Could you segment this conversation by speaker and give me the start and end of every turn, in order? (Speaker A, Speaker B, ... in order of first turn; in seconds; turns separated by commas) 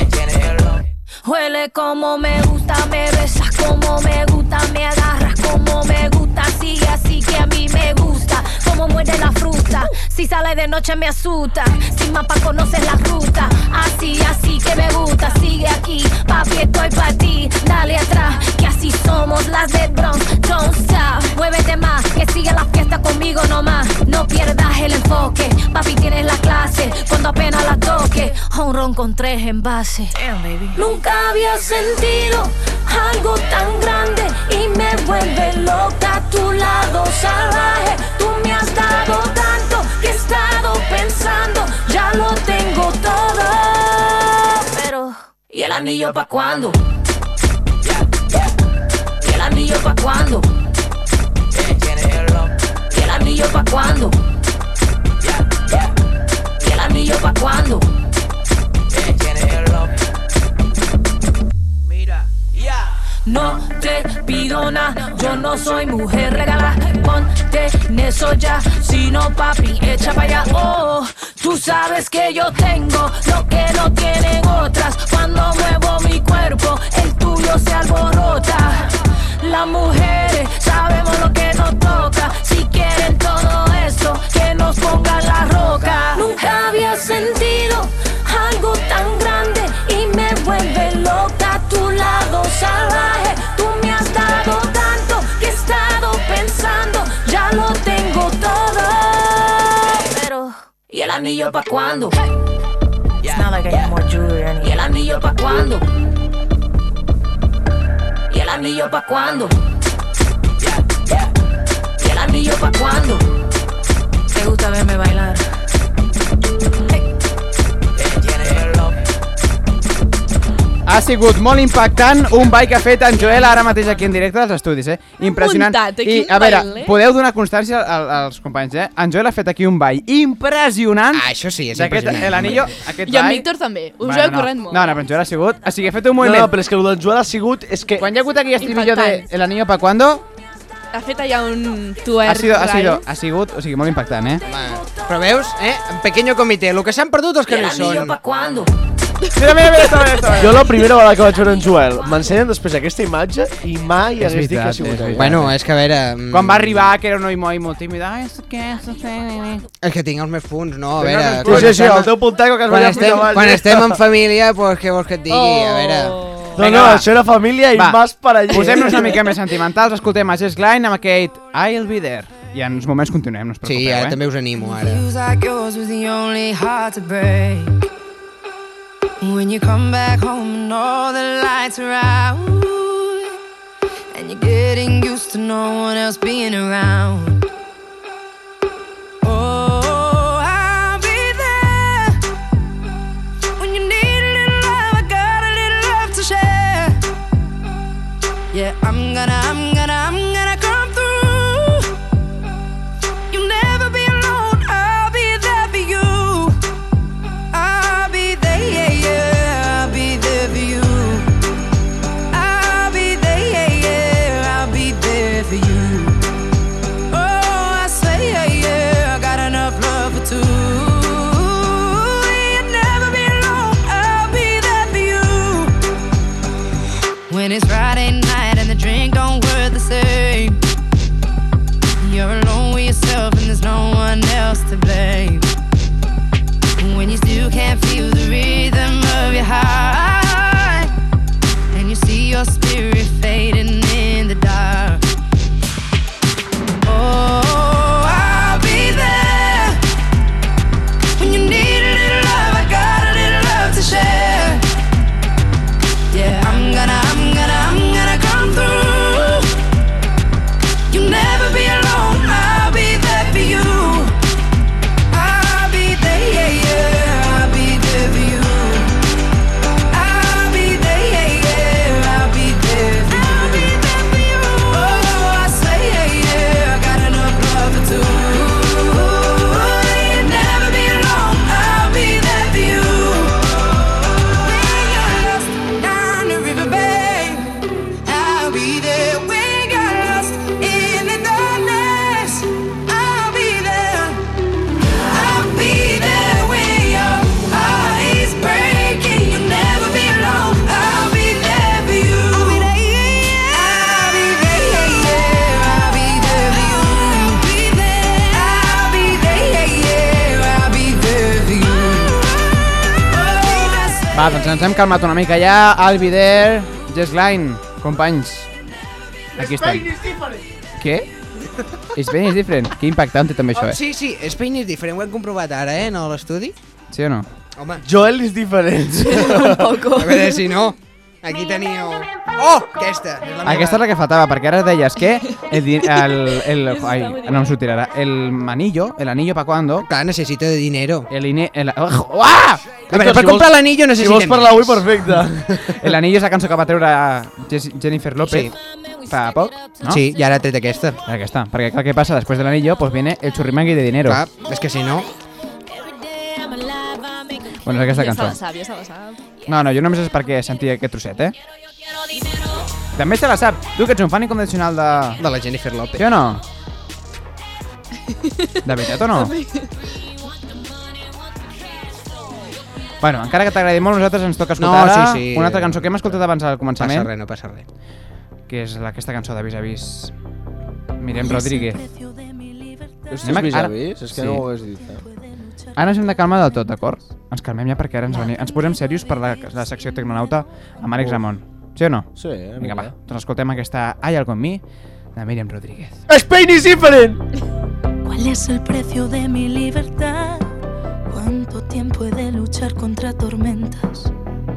Speaker A: 1.2-30.1, Speaker A: 30.7-46.8, Speaker A: 49.2-50.5, Speaker A: 52.9-54.2, Speaker A: 56.6-57.9, Speaker A: 63.3-102.2, Speaker A: 104.5-105.8, Speaker A: 108.3-109.5, Speaker A: 112.0-113.2, Speaker A: 114.3-115.4, Speaker B: 120.9-133.4, Speaker C: 123.2-123.6, Speaker C: 125.2-127.0, Speaker D: 131.1-132.8, Speaker C: 133.1-134.9, Speaker B: 134.0-136.5, Speaker E: 136.2-138.1, Speaker B: 138.0-140.2, Speaker C: 138.6-139.3, Speaker C: 140.9-143.0, Speaker B: 142.2-144.4, Speaker D: 144.4-148.2, Speaker A: 147.5-148.7, Speaker B: 149.3-150.7, Speaker E: 150.3-155.4, Speaker B: 154.2-155.5, Speaker D: 155.1-156.9, Speaker B: 156.3-159.6, Speaker D: 159.8-166.2, Speaker E: 161.0-164.0, Speaker B: 161.1-161.9, Speaker C: 165.3-166.6, Speaker E: 166.6-169.2, Speaker B: 166.6-167.1, Speaker B: 167.7-174.2, Speaker C: 168.6-169.0, Speaker D: 173.6-175.1, Speaker F: 174.6-177.8, Speaker F: 179.2-183.3, Speaker F: 184.1-187.4, Speaker F: 189.2-192.2, Speaker F: 193.6-197.0, Speaker F: 198.5-201.9, Speaker F: 203.3-206.6, Speaker F: 207.5-211.3, Speaker F: 212.3-216.2, Speaker F: 217.1-225.7, Speaker F: 227.3-230.6, Speaker F: 232.0-235.4, Speaker F: 236.8-240.9, Speaker F: 241.7-245.0, Speaker F: 246.8-249.8, Speaker F: 251.2-254.6, Speaker F: 256.1-259.5, Speaker F: 260.9-264.1, Speaker F: 265.1-268.9, Speaker F: 269.9-287.5, Speaker F: 288.0-294.2, Speaker F: 295.0-314.3, Speaker B: 314.1-318.5, Speaker B: 319.4-319.9, Speaker B: 320.8-321.1, Speaker B: 321.9-323.8, Speaker D: 323.5-326.5, Speaker B: 326.9-327.3, Speaker D: 327.6-327.8, Speaker E: 327.8-329.8, Speaker C: 329.0-330.4, Speaker D: 329.9-333.8, Speaker B: 333.4-339.9, Speaker C: 336.0-337.5, Speaker D: 339.8-341.1, Speaker B: 341.1-342.9, Speaker E: 342.9-345.7, Speaker D: 342.9-344.9, Speaker B: 345.7-348.5, Speaker D: 348.2-348.5, Speaker B: 349.1-350.0, Speaker D: 349.9-351.0, Speaker B: 351.1-354.2, Speaker D: 354.0-355.1, Speaker B: 357.6-358.4, Speaker C: 357.9-359.2, Speaker B: 359.4-361.3, Speaker B: 362.9-365.2, Speaker D: 365.2-366.0, Speaker B: 365.9-366.4, Speaker B: 368.6-369.3, Speaker C: 368.9-369.7, Speaker B: 373.0-377.1, Speaker D: 374.6-376.2, Speaker D: 376.8-377.6, Speaker B: 378.5-380.1, Speaker B: 381.0-381.9, Speaker G: 381.1-383.2, Speaker E: 383.1-385.0, Speaker B: 383.2-384.4, Speaker G: 384.8-385.8, Speaker B: 385.8-394.6, Speaker G: 388.1-388.5, Speaker G: 389.1-389.6, Speaker E: 392.1-392.9, Speaker B: 395.1-396.0, Speaker E: 396.1-397.2, Speaker G: 398.0-400.5, Speaker G: 401.1-404.1